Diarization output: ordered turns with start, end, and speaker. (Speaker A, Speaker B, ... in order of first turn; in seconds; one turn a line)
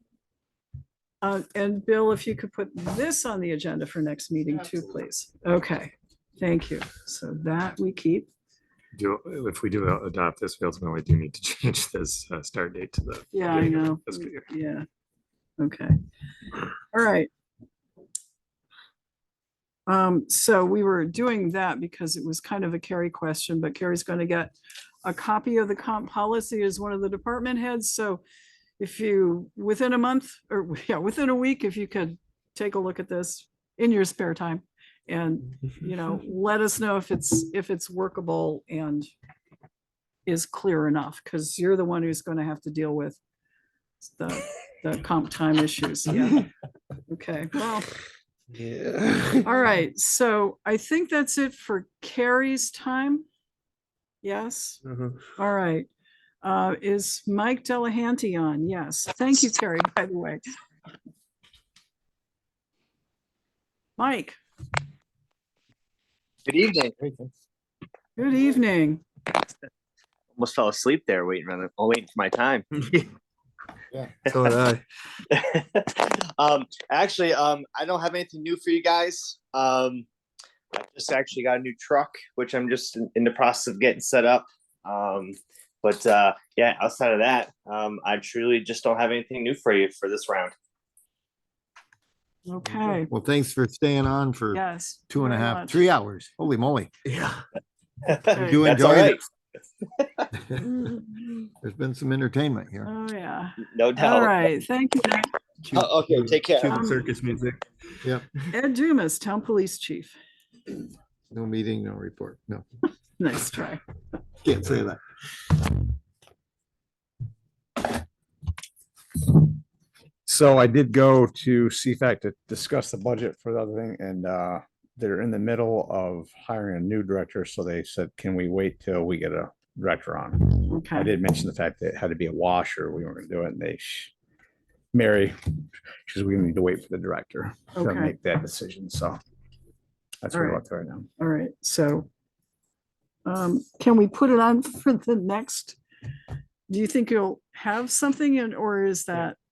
Speaker A: 1.2-8.3
Speaker B: 8.9-14.4
Speaker A: 13.3-14.8
Speaker A: 15.6-15.9
Speaker A: 16.9-17.3
Speaker A: 19.9-28.2
Speaker A: 28.8-39.1
Speaker A: 40.3-43.2
Speaker A: 44.0-46.5
Speaker A: 47.1-47.9
Speaker C: 48.5-49.5
Speaker A: 49.4-53.2
Speaker A: 54.2-54.8
Speaker C: 54.9-55.2
Speaker A: 55.4-55.9
Speaker A: 56.4-60.4
Speaker A: 64.0-64.4
Speaker D: 66.5-66.9
Speaker E: 67.0-67.3
Speaker A: 68.2-69.0
Speaker D: 70.3-72.7
Speaker C: 72.8-73.0
Speaker C: 74.3-74.8
Speaker D: 75.3-80.1
Speaker D: 80.7-90.5
Speaker A: 92.5-93.1
Speaker E: 93.1-96.9
Speaker A: 94.5-95.9
Speaker C: 97.1-97.4
Speaker D: 98.1-99.2
Speaker E: 98.3-99.2
Speaker A: 98.3-98.7
Speaker D: 100.0-100.3
Speaker E: 100.3-100.7
Speaker E: 101.6-102.9
Speaker A: 102.8-105.3
Speaker D: 103.7-104.3
Speaker E: 105.7-106.3
Speaker D: 105.7-106.8
Speaker A: 106.6-107.1
Speaker C: 106.7-107.6
Speaker A: 108.5-110.2
Speaker E: 111.3-112.6
Speaker A: 113.2-113.8
Speaker E: 114.4-115.0
Speaker F: 120.3-134.1
Speaker A: 130.7-131.1
Speaker F: 134.9-135.3
Speaker F: 136.1-139.2
Speaker A: 137.8-138.1
Speaker F: 140.2-141.1
Speaker A: 140.3-140.6
Speaker A: 141.2-142.1
Speaker A: 143.2-145.8
Speaker A: 146.7-149.4